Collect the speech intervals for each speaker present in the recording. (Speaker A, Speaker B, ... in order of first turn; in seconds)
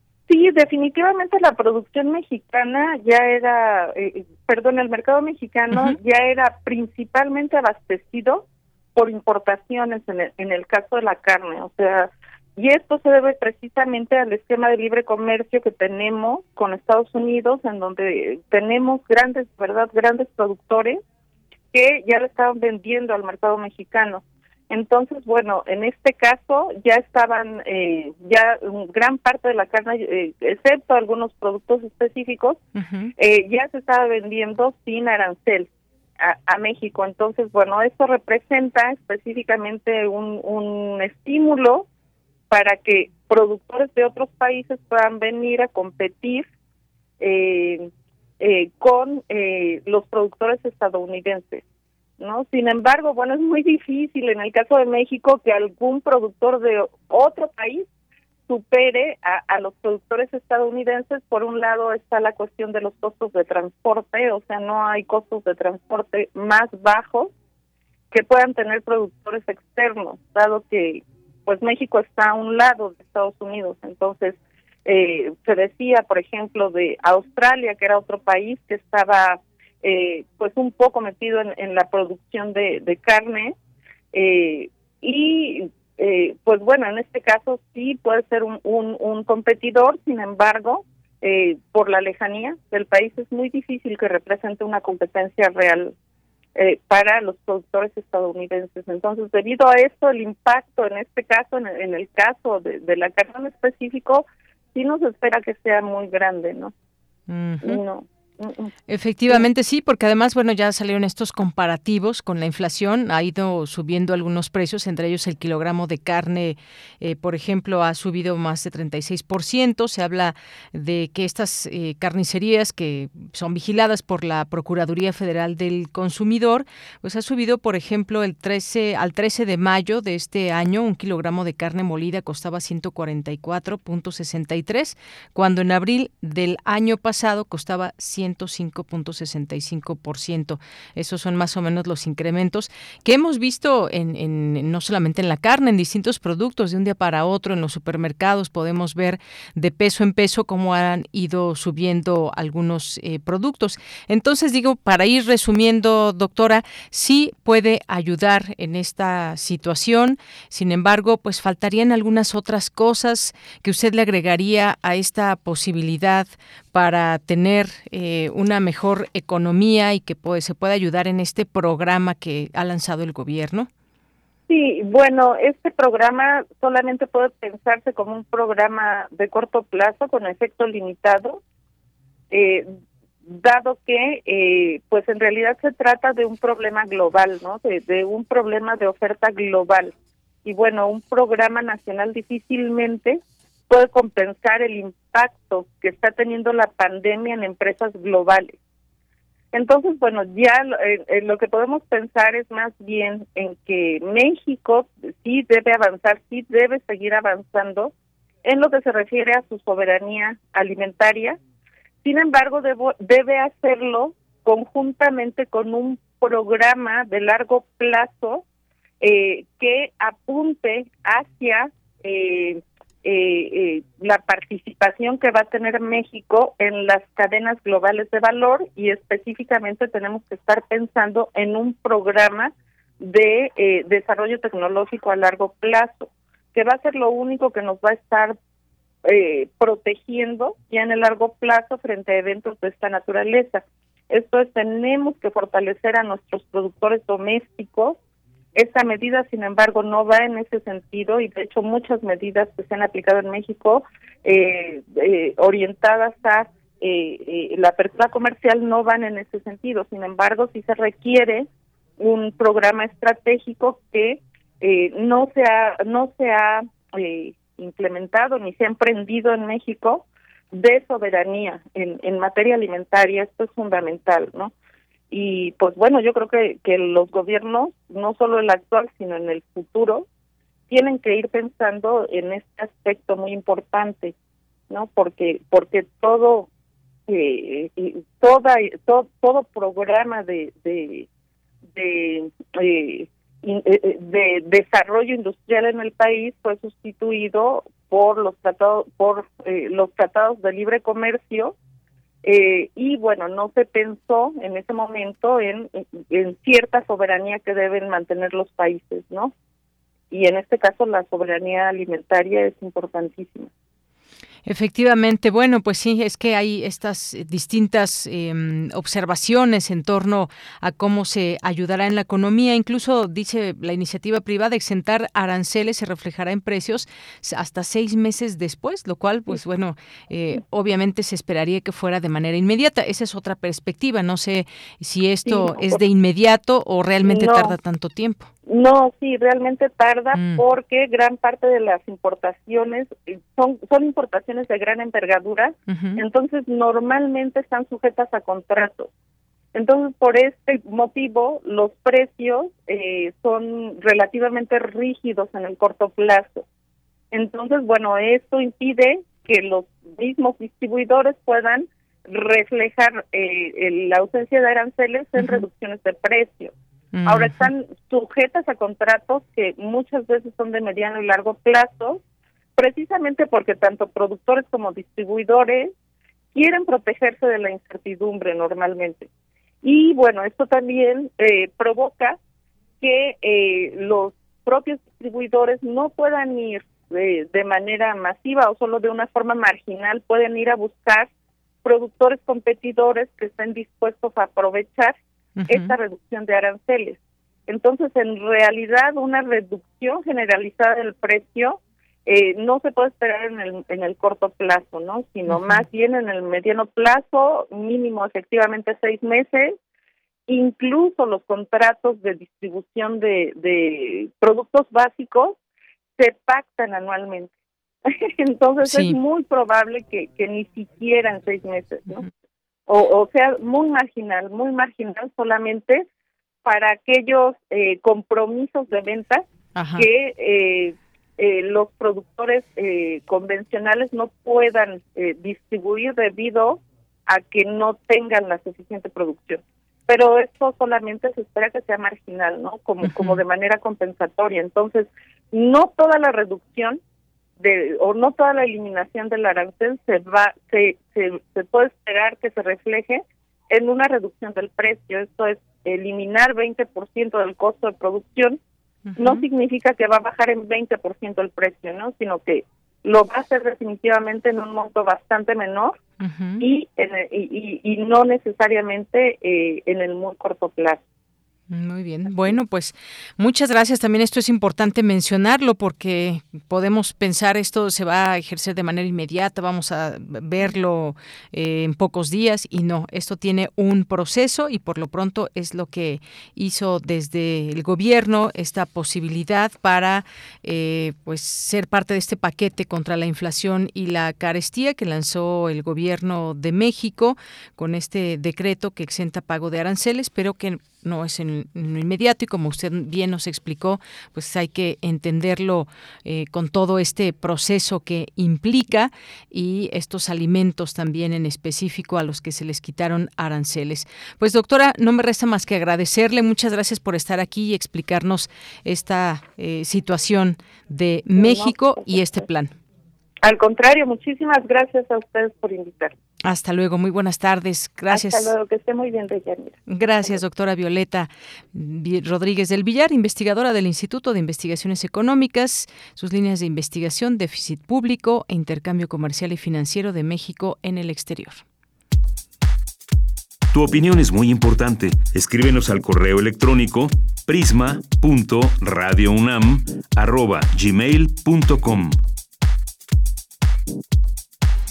Speaker A: 0.3-21.0, 21.7-32.6, 33.2-35.7, 36.2-41.9, 42.5-46.5, 47.2-51.6, 52.2-57.9, 58.5-67.3, 68.1-83.5, 84.1-95.9, 96.5-106.7, 107.6-108.7, 174.5-181.4, 182.3-182.7, 183.2-189.9, 190.4-198.6, 199.5-207.9, 208.4-211.4, 212.0-218.4, 219.0-238.4, 239.0-248.0, 248.5-261.5, 262.0-274.5, 275.1-280.1, 280.7-284.1, 284.7-286.5, 287.1-291.1, 291.7-301.5, 302.2-309.3, 310.1-313.5, 335.2-335.8, 337.0-337.6, 338.5-348.9, 349.5-356.4, 357.1-366.5, 367.1-372.0, 372.6-375.7, 376.3-379.1, 379.6-382.2, 382.8-391.1, 391.6-395.0, 395.5-409.6, 410.3-415.4, 416.0-417.3, 417.9-422.1, 422.7-425.8, 426.4-446.8, 447.4-458.4, 459.0-465.8, 466.4-470.8, 521.1-522.2, 523.2-525.9, 527.9-530.2
Speaker B: 32.8-33.1, 107.3-107.8, 108.9-173.7, 314.4-338.3, 340.1-340.4, 345.7-346.0, 366.9-367.4, 395.4-395.7, 405.3-405.6, 418.6-419.0, 429.6-429.9, 442.8-443.2, 458.9-459.2, 466.0-466.4, 471.5-522.5, 526.2-528.3, 529.7-541.4
Speaker C: 543.5-552.0